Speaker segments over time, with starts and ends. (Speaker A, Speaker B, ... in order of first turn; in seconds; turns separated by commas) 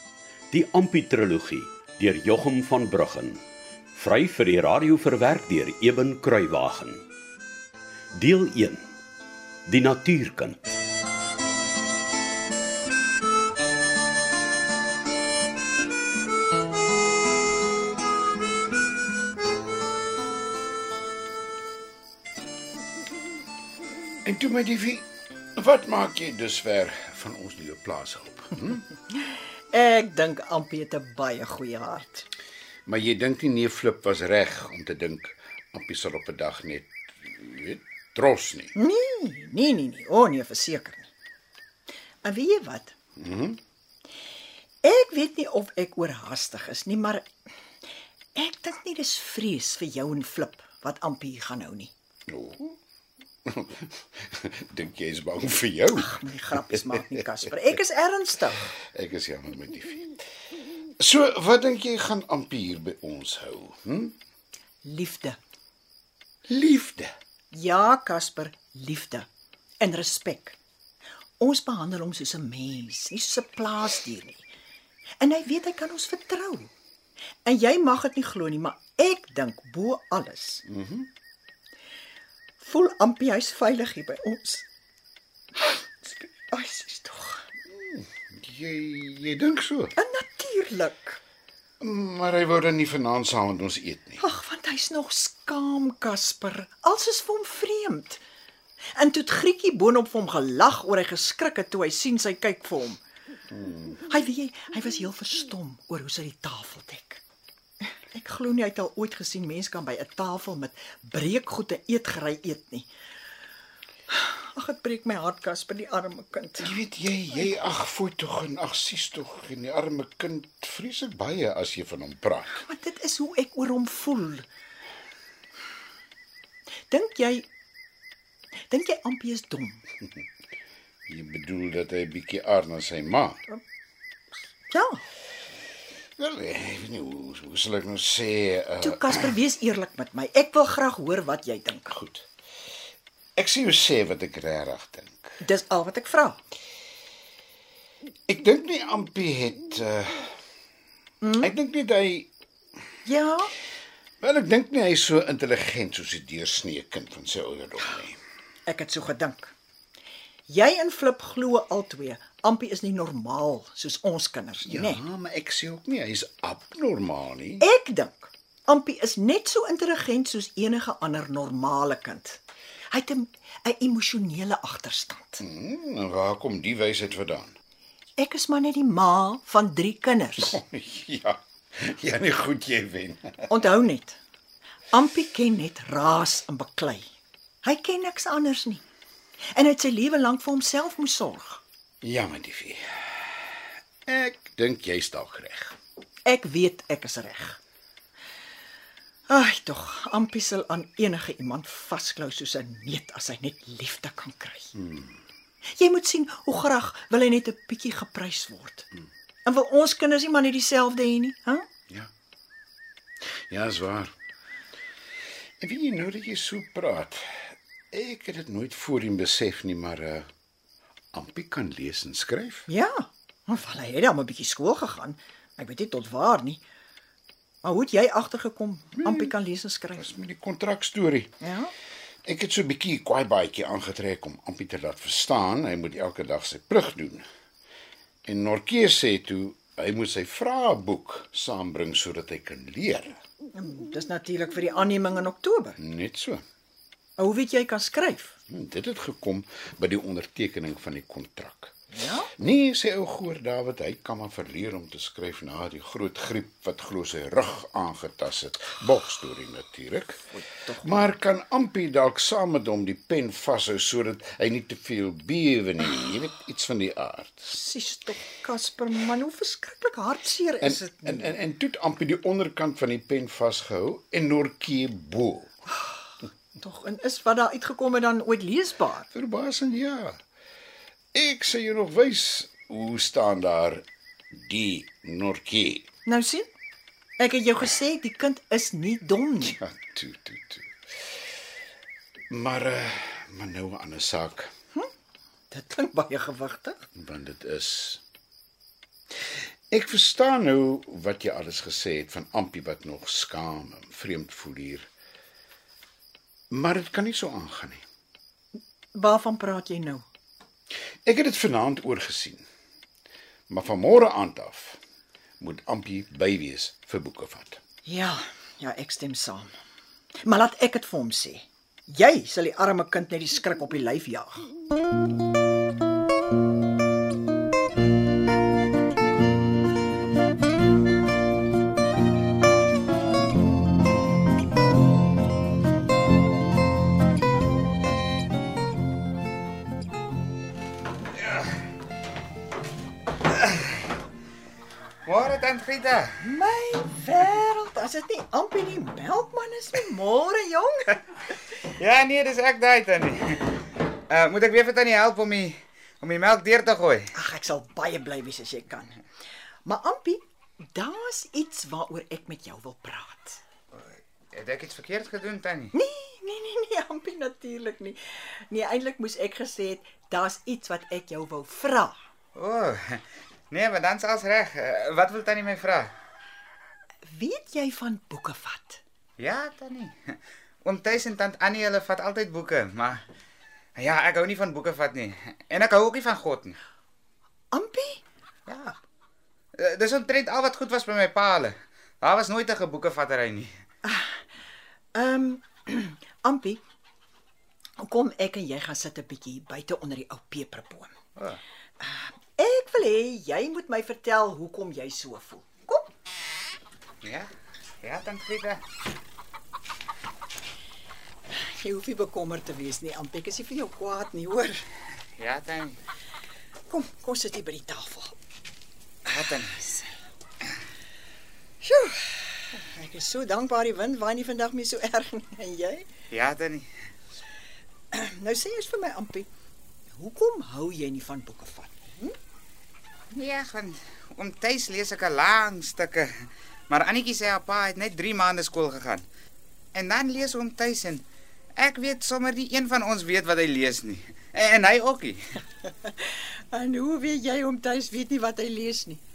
Speaker A: 0.5-3.4, Speaker A: 3.9-7.0, Speaker A: 8.1-8.8, Speaker A: 9.7-10.6, Speaker B: 24.2-28.9, Speaker C: 29.7-32.3, Speaker B: 32.9-38.8, Speaker C: 38.8-41.1, Speaker C: 42.2-43.0, Speaker B: 43.2-43.6, Speaker C: 44.8-47.3, Speaker C: 48.4-51.9, Speaker B: 52.3-52.8, Speaker B: 53.5-57.1, Speaker C: 55.9-58.7, Speaker B: 58.7-60.2, Speaker B: 61.0-64.2, Speaker C: 64.8-65.4, Speaker B: 66.5-67.1, Speaker C: 67.5-69.3, Speaker C: 69.8-70.6, Speaker C: 71.4-74.4, Speaker C: 75.2-76.7, Speaker C: 77.5-80.6, Speaker B: 80.7-81.1, Speaker C: 82.6-84.7, Speaker C: 85.6-87.5, Speaker B: 87.7-89.9, Speaker C: 90.0-91.2, Speaker B: 91.8-94.2, Speaker C: 94.2-98.2, Speaker C: 99.0-103.0, Speaker B: 103.5-104.0, Speaker C: 104.0-107.2, Speaker C: 108.1-112.9, Speaker C: 114.1-116.7, Speaker B: 116.6-122.6, Speaker C: 122.5-124.5, Speaker C: 126.9-127.5, Speaker C: 128.7-129.8, Speaker B: 131.1-133.4, Speaker C: 134.7-135.0, Speaker B: 136.2-139.4, Speaker C: 138.8-142.0, Speaker B: 142.0-142.2, Speaker B: 143.4-145.2, Speaker C: 145.4-146.4, Speaker B: 148.3-150.3, Speaker C: 151.2-151.5, Speaker B: 151.4-152.3, Speaker C: 153.1-153.5, Speaker B: 154.2-158.2, Speaker C: 158.7-159.5, Speaker C: 160.5-165.0, Speaker B: 164.7-167.7, Speaker C: 167.6-175.4, Speaker B: 175.4-177.6, Speaker C: 178.2-180.6, Speaker B: 180.4-183.5, Speaker C: 183.5-184.2, Speaker C: 184.9-187.1, Speaker C: 187.6-188.8, Speaker C: 189.5-191.6, Speaker B: 192.0-193.3, Speaker B: 194.1-195.8, Speaker C: 196.3-197.6, Speaker C: 199.3-204.7, Speaker B: 204.8-205.1, Speaker C: 205.8-208.9, Speaker C: 209.4-211.7, Speaker B: 213.5-214.2, Speaker B: 215.6-220.3, Speaker B: 221.1-222.7, Speaker C: 222.7-226.6, Speaker C: 227.6-230.1, Speaker B: 229.0-229.3, Speaker B: 230.0-231.3, Speaker C: 231.4-231.7, Speaker B: 232.2-237.3, Speaker B: 238.2-243.2, Speaker C: 243.5-245.8, Speaker B: 245.8-246.4, Speaker C: 247.2-248.3, Speaker B: 248.5-251.8, Speaker C: 251.9-252.3, Speaker B: 252.4-260.2, Speaker C: 260.3-261.1, Speaker B: 260.8-267.6, Speaker C: 267.5-271.3, Speaker B: 270.6-275.6, Speaker C: 276.6-279.1, Speaker B: 279.1-280.2, Speaker B: 281.1-285.9, Speaker C: 286.1-286.5, Speaker C: 287.2-289.6, Speaker B: 289.5-290.7, Speaker B: 292.3-294.5, Speaker C: 295.5-296.8, Speaker B: 297.0-298.0, Speaker B: 299.7-304.9, Speaker B: 306.5-307.8, Speaker C: 308.9-310.1, Speaker B: 311.1-312.4, Speaker B: 313.5-314.8, Speaker B: 315.4-317.6, Speaker C: 317.9-319.5, Speaker C: 320.2-324.5, Speaker D: 345.1-346.2, Speaker C: 346.2-351.0, Speaker D: 351.6-353.5, Speaker D: 354.1-357.1, Speaker C: 357.1-359.0, Speaker C: 359.6-363.4, Speaker D: 363.8-365.7, Speaker C: 365.7-371.9, Speaker D: 372.4-375.9, Speaker C: 377.1-378.8, Speaker D: 379.2-383.0, Speaker D: 383.8-386.6, Speaker C: 387.5-388.0, Speaker D: 388.5-388.8, Speaker D: 389.6-393.5, Speaker C: 393.8-394.2, Speaker C: 394.9-396.6, Speaker C: 397.8-400.9, Speaker C: 401.8-405.9, Speaker D: 407.0-407.3, Speaker D: 407.8-408.6, Speaker C: 411.3-414.6, Speaker D: 415.2-415.8, Speaker C: 416.7-418.2, Speaker D: 419.1-419.6, Speaker C: 419.4-419.9, Speaker C: 421.6-425.9, Speaker D: 426.1-426.7, Speaker C: 427.9-429.3, Speaker C: 429.9-432.1, Speaker D: 433.1-439.1, Speaker D: 439.7-441.0, Speaker D: 441.6-445.4, Speaker C: 445.6-449.0